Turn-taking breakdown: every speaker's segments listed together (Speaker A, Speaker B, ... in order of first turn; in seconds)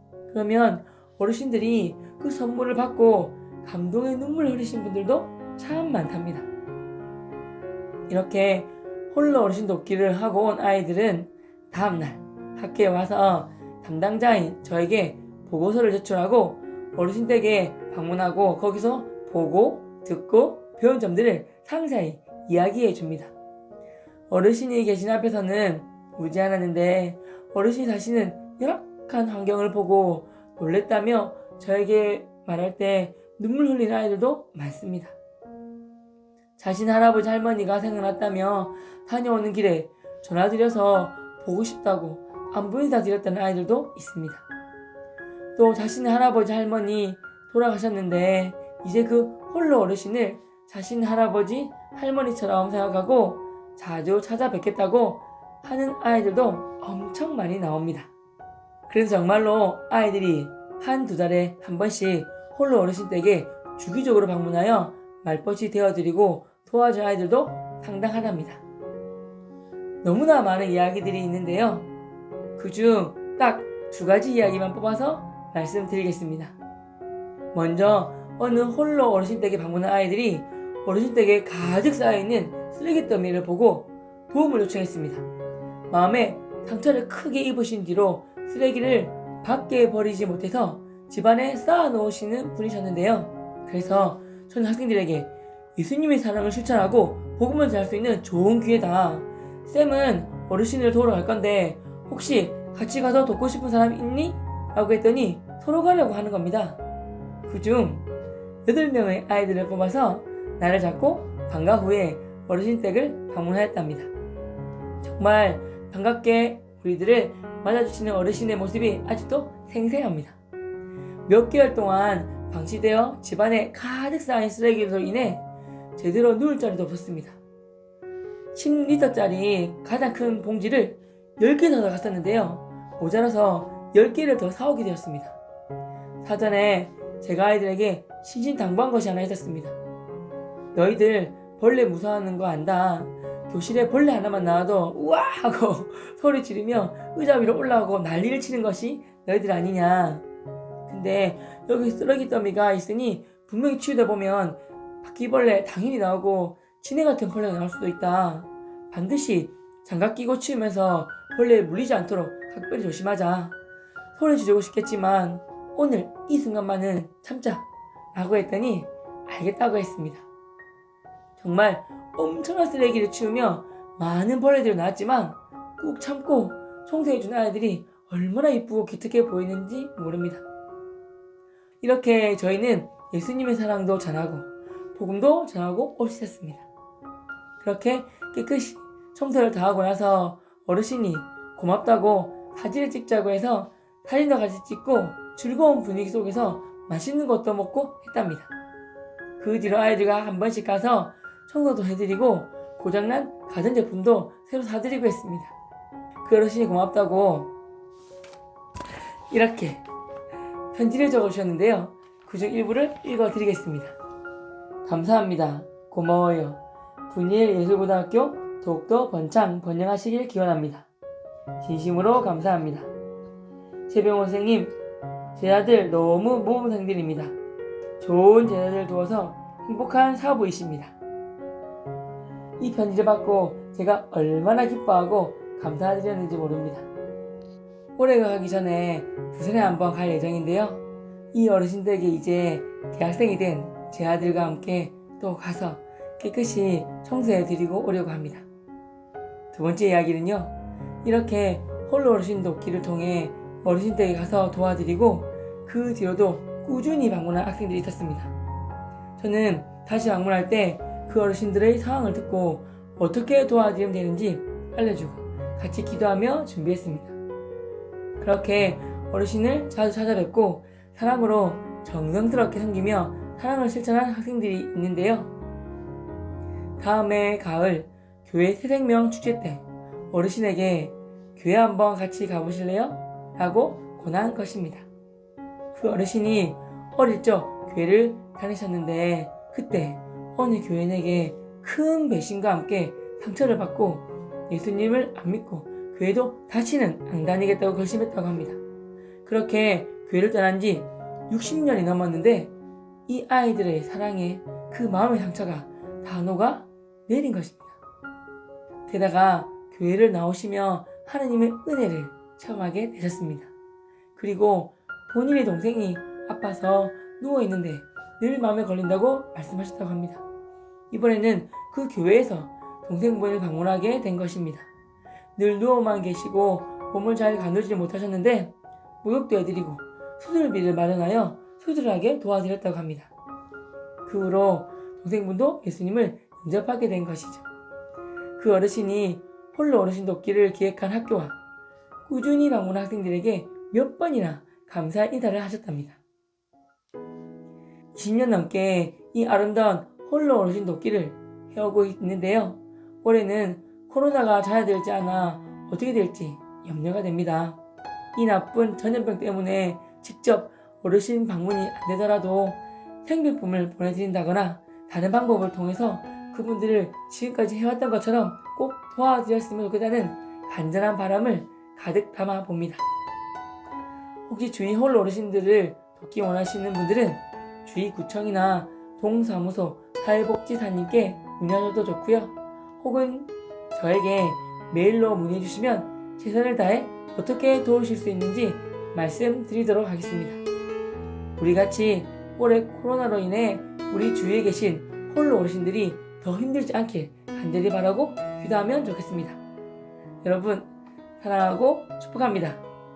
Speaker A: 0.3-6.5, 8.1-23.3, 24.3-35.2, 36.6-44.5, 45.6-58.1, 58.9-68.6, 70.0-71.9, 72.6-76.5, 77.5-85.2, 85.9-106.8, 107.5-108.0, 108.7-114.1, 115.0-120.4, 121.3-125.4, 126.0-127.4, 128.5-135.4, 136.2-139.8, 140.7-150.2, 150.9-163.6, 164.2-170.3, 171.4-180.4, 181.8-186.7, 187.6-198.5, 199.4-205.5, 206.2-207.5, 209.3-209.8, 210.7-214.0, 214.8-220.9, 221.6-222.9, 223.9-224.8, 225.3-227.3, 228.0-230.9, 232.6-236.9, 238.0-240.8, 241.3-248.5, 249.5-258.3, 259.2-267.2, 268.2-275.3, 276.8-284.9, 285.7-298.6, 299.2-302.5, 303.1-307.8, 308.9-313.5, 314.1-320.2, 320.9-324.7, 325.4-333.1, 334.1-337.5, 338.4-341.4, 342.1-346.0, 347.9-357.6, 358.1-372.8, 374.3-390.4, 391.4-399.4, 400.2-402.6